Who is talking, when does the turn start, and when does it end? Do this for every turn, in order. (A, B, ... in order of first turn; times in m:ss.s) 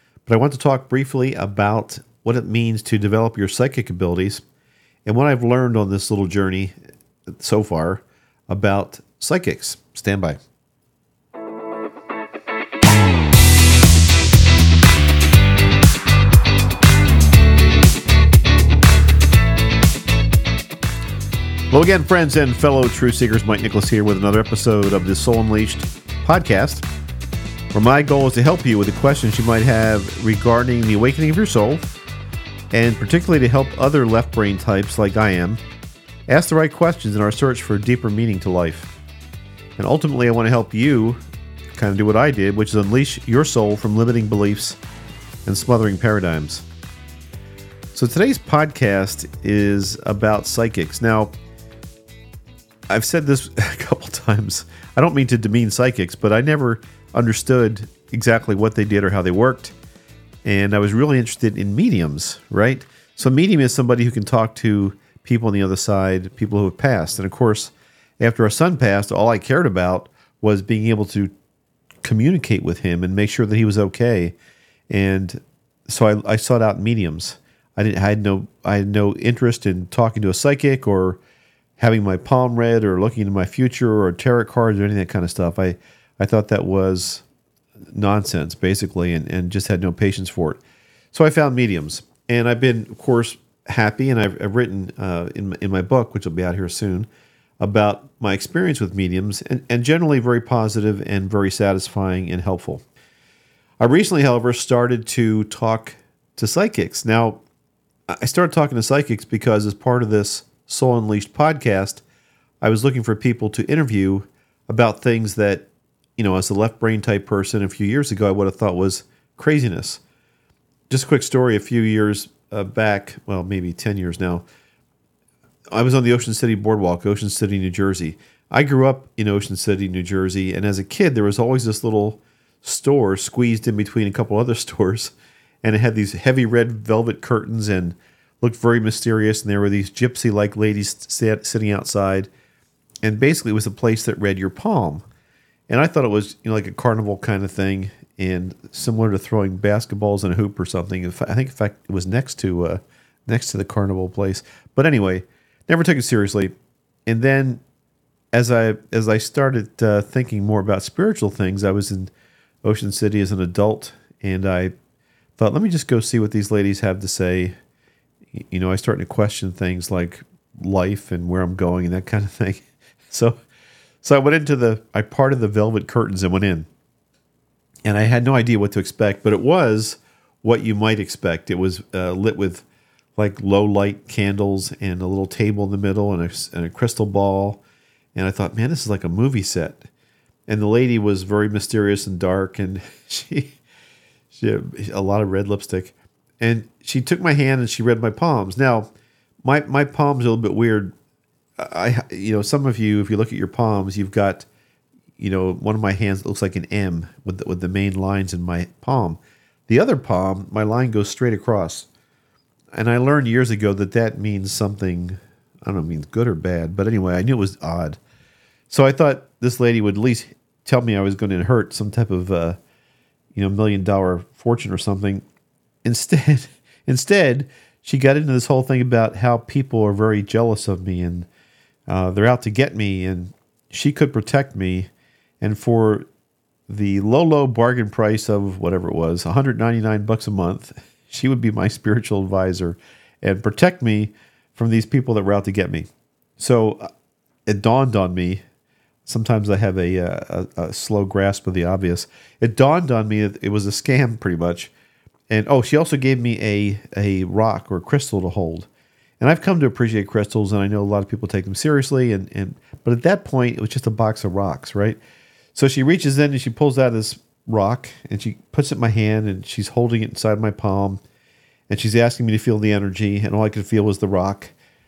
0:00.2-0:04.4 A
0:05.0-0:06.7 A
0:07.3-0:10.4 A
0:21.7-0:26.8 A
0:27.7-0:31.9 A
0:32.7-0:35.6 A
0:36.3-0:38.9 A
0:39.8-0:41.2 A
0:41.7-0:44.8 A
0:45.4-0:46.6 A
0:47.9-0:51.3 A
0:52.9-0:59.7 A
1:00.4-1:11.3 A
1:12.0-1:14.4 A
1:14.9-1:21.2 A
1:21.8-1:27.2 A
1:27.9-1:30.6 A
1:31.1-1:37.1 A
1:37.6-1:42.8 A
1:43.8-1:47.4 A
1:48.1-1:52.0 A
1:52.6-2:00.0 A
2:00.9-2:04.4 A
2:05.7-2:22.3 A
2:23.0-2:25.0 A
2:25.7-2:36.5 A
2:37.0-2:37.6 A
2:38.3-2:42.1 A
2:42.6-2:44.7 A
2:45.4-2:47.5 A
2:48.3-2:53.4 A
2:54.0-2:56.7 A
2:57.8-3:02.6 A
3:03.2-3:07.6 A
3:08.1-3:09.8 A
3:10.5-3:13.6 A
3:14.3-3:18.9 A
3:19.4-3:20.9 A
3:21.6-3:24.4 A
3:25.2-3:31.9 A
3:32.7-3:38.0 A
3:38.7-3:42.6 A
3:43.3-3:45.2 A
3:45.8-3:51.3 A
3:51.9-3:54.9 A
3:55.4-3:56.0 A
3:56.7-4:06.9 A
4:07.4-4:08.4 A
4:09.0-4:14.7 A
4:15.3-4:18.7 A
4:19.2-4:25.0 A
4:25.5-4:31.0 A
4:31.7-4:34.5 A